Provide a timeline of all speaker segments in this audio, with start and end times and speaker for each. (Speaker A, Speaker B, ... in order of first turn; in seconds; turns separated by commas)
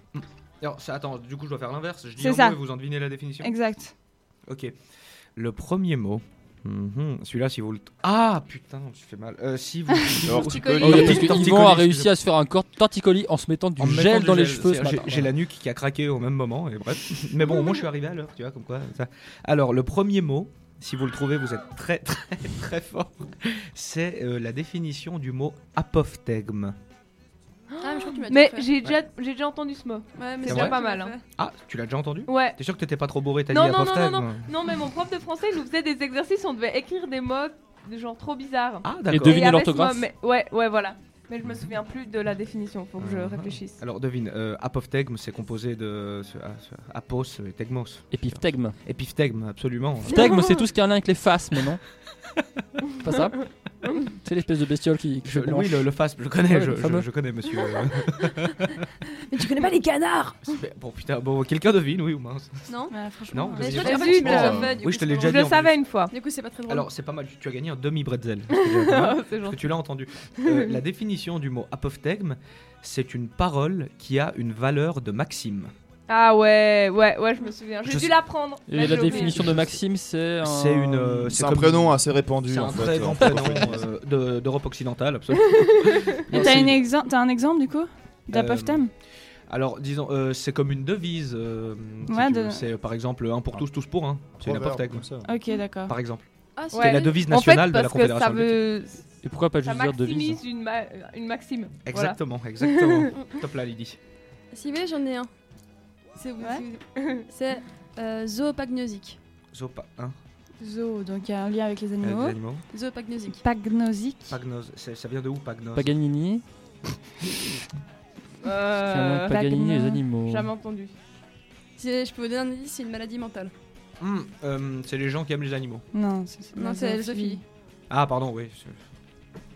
Speaker A: 0.1-3.5, Speaker B: 2.2-2.6, Speaker B: 3.4-3.9, Speaker A: 4.5-4.8, Speaker A: 5.3-12.1, Speaker C: 10.2-11.5, Speaker D: 10.5-11.1, Speaker E: 10.8-15.3, Speaker A: 13.8-26.8, Speaker D: 27.7-31.2, Speaker F: 27.8-28.8, Speaker F: 30.1-31.2, Speaker A: 30.5-30.8, Speaker A: 31.4-34.5, Speaker D: 32.3-32.6, Speaker D: 33.5-43.8, Speaker A: 38.8-39.5, Speaker E: 39.1-40.1, Speaker A: 43.0-50.3, Speaker E: 48.1-48.8, Speaker E: 50.1-51.8, Speaker E: 53.0-55.9, Speaker A: 55.2-58.7, Speaker E: 56.5-57.1, Speaker F: 59.3-60.5, Speaker A: 60.4-62.6, Speaker F: 62.7-63.0, Speaker B: 62.9-64.2, Speaker A: 63.3-65.8, Speaker F: 63.6-65.5, Speaker D: 63.7-66.1, Speaker C: 64.2-64.8, Speaker F: 66.1-66.9, Speaker A: 66.7-75.7, Speaker D: 68.5-69.8, Speaker D: 70.4-70.8, Speaker D: 76.1-79.6, Speaker E: 78.7-81.3, Speaker A: 78.8-79.8, Speaker A: 80.4-86.8, Speaker C: 81.3-83.9, Speaker D: 85.5-86.2, Speaker B: 86.3-88.9, Speaker A: 88.3-95.1, Speaker B: 92.1-92.6, Speaker C: 94.4-95.3, Speaker B: 95.2-95.9, Speaker A: 95.8-98.6, Speaker F: 96.6-97.0, Speaker D: 96.7-99.0, Speaker E: 99.2-100.4, Speaker D: 99.6-103.1, Speaker A: 101.8-104.0, Speaker F: 104.5-105.3, Speaker F: 106.1-109.2, Speaker D: 107.0-107.2, Speaker A: 109.5-110.1, Speaker B: 110.6-112.4, Speaker A: 112.0-112.6, Speaker F: 112.7-113.4, Speaker B: 113.3-114.4, Speaker A: 114.3-115.9, Speaker E: 115.8-116.4, Speaker D: 118.4-119.4, Speaker E: 118.7-120.5, Speaker B: 119.3-120.0, Speaker D: 120.2-121.0, Speaker F: 121.8-123.5, Speaker A: 124.0-125.9, Speaker B: 125.9-127.4, Speaker F: 126.5-127.4, Speaker A: 127.9-128.8